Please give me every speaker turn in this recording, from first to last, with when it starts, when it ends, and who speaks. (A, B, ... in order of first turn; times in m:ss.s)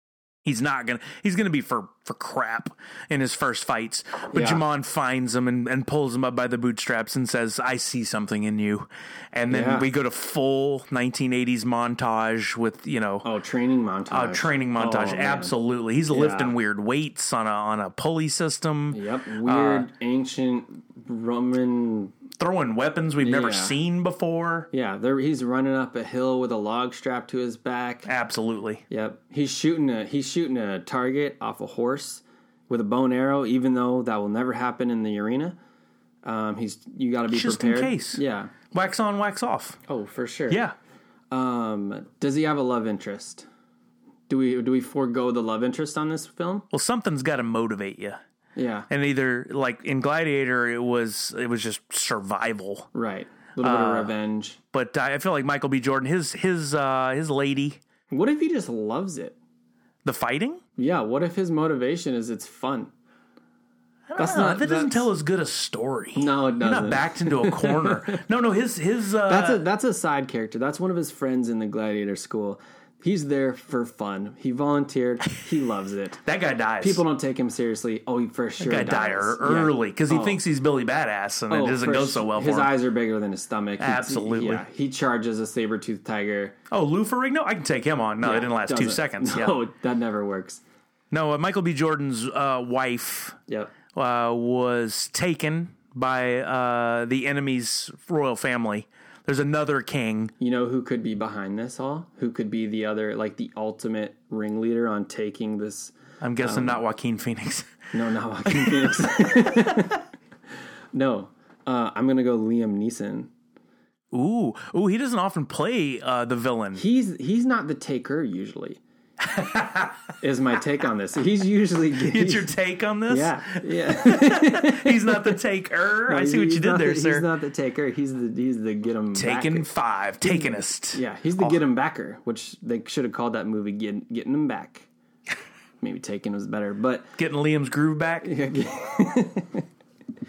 0:00.4-0:13.2 A
0:04.3-0:04.6 B
0:09.5-0:09.9 B
0:13.2-0:15.5 B
0:14.1-0:19.9 A
0:16.1-0:16.5 B
0:18.9-0:22.1 B
0:22.4-0:24.7 A
0:23.2-0:23.8 B
0:24.7-0:28.1 B
0:28.1-0:28.8 A
0:28.9-0:35.6 B
0:36.2-0:38.5 B
0:37.3-0:38.2 A
0:38.7-0:39.8 A
0:39.9-0:40.6 B
0:40.5-0:40.7 A
0:41.3-0:43.5 B
0:44.3-0:46.6 B
0:46.7-0:48.2 A
0:48.6-0:48.9 B
0:48.9-0:52.9 A
0:52.9-0:54.6 B
0:53.6-0:54.1 A
0:54.7-0:57.8 A
0:58.1-0:59.4 B
1:00.0-1:00.6 A
1:00.8-1:02.9 B
1:04.1-1:09.6 A
1:04.2-1:05.1 B
1:06.2-1:08.2 B
1:09.3-1:16.2 B
1:16.2-1:17.0 A
1:16.8-1:20.4 B
1:18.6-1:22.7 A
1:21.5-1:26.6 B
1:23.8-1:24.6 A
1:26.7-1:29.6 A
1:28.2-1:30.6 B
1:31.1-1:33.4 A
1:33.5-1:33.7 B
1:33.9-1:40.3 A
1:40.4-1:46.8 B
1:46.2-1:47.8 A
1:47.9-1:50.0 B
1:48.4-1:49.9 A
1:50.9-1:53.3 B
1:54.1-1:56.8 A
1:56.7-1:58.8 B
1:59.2-2:00.0 A
2:00.2-2:02.5 B
2:02.0-2:07.2 A
2:03.1-2:05.4 B
2:06.1-2:09.7 B
2:09.1-2:11.6 A
2:10.2-2:14.9 B
2:15.8-2:17.2 B
2:17.2-2:18.3 A
2:18.2-2:19.6 B